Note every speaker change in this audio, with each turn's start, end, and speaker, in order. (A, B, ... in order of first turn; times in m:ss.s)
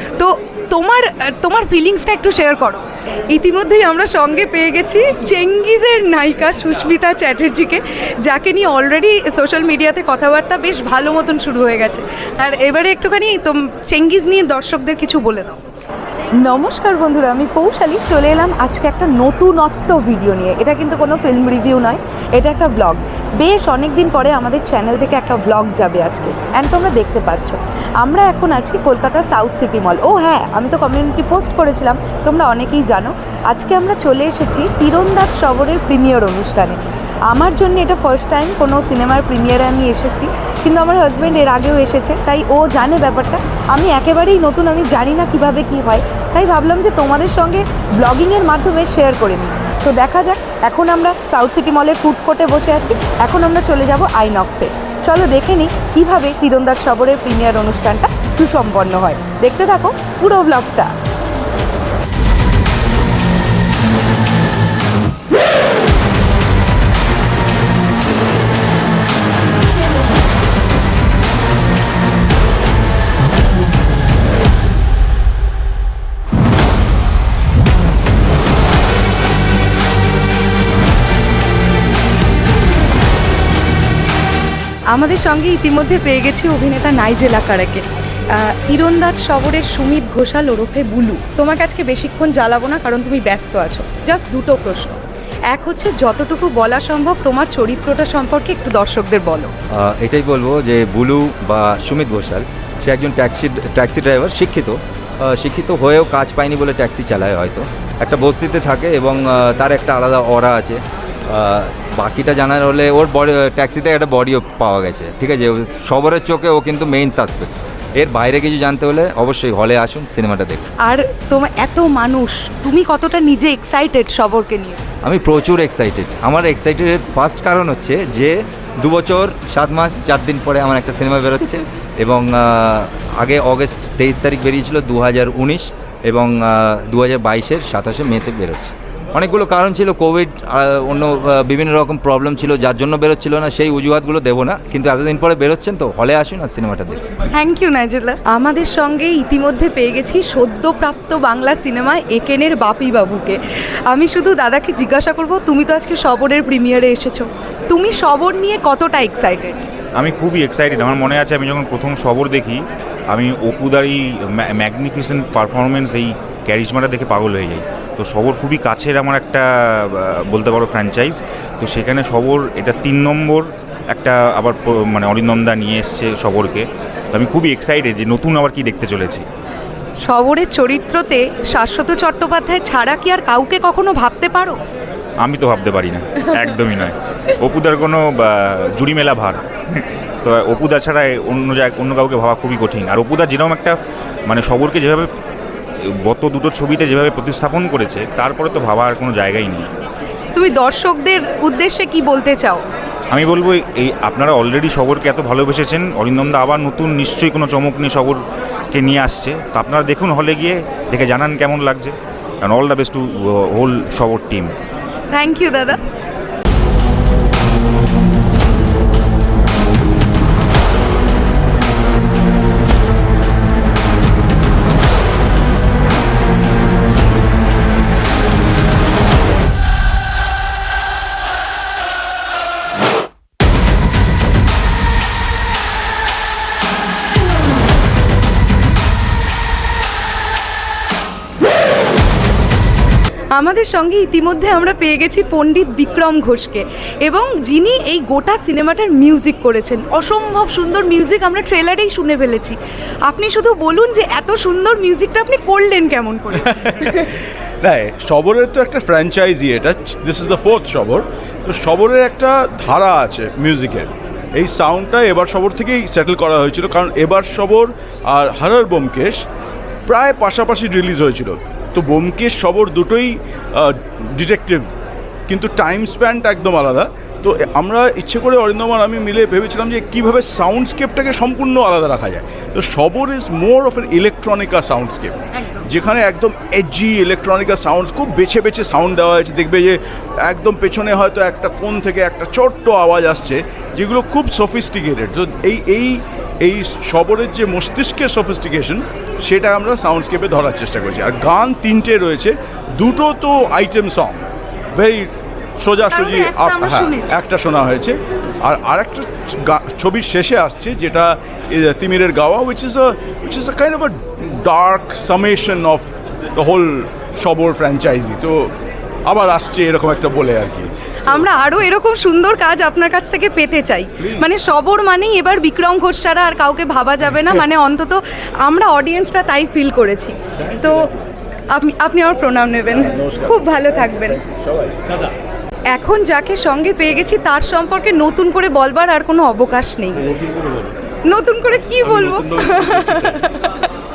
0:00.2-0:15.6 A
0:16.4-0:36.8 A
0:37.3-1:00.9 A
1:24.9-1:27.8 A
1:28.4-1:35.0 A
1:35.5-1:39.5 A
1:39.7-2:00.7 B
2:00.8-2:04.8 A
2:05.0-2:27.0 B
2:27.4-2:33.4 A
2:33.9-2:39.6 A
2:40.0-2:42.6 C
2:43.1-2:59.2 C
3:00.1-3:04.6 A
3:05.2-3:13.8 C
3:14.3-3:15.1 C
3:16.1-3:19.7 C
3:20.4-3:22.6 A
3:23.1-3:28.2 C
3:28.7-3:34.5 C
3:35.1-3:35.8 A
4:03.4-4:17.0 A
4:17.6-4:29.2 D
4:29.9-4:34.7 D
4:35.3-5:04.2 D
4:45.4-4:45.6 A
5:04.8-5:18.5 D
5:05.9-5:07.1 A
5:19.1-5:20.7 D
5:21.1-5:30.8 A
5:31.5-5:34.2 A
5:35.7-5:40.0 A
5:41.1-5:43.7 A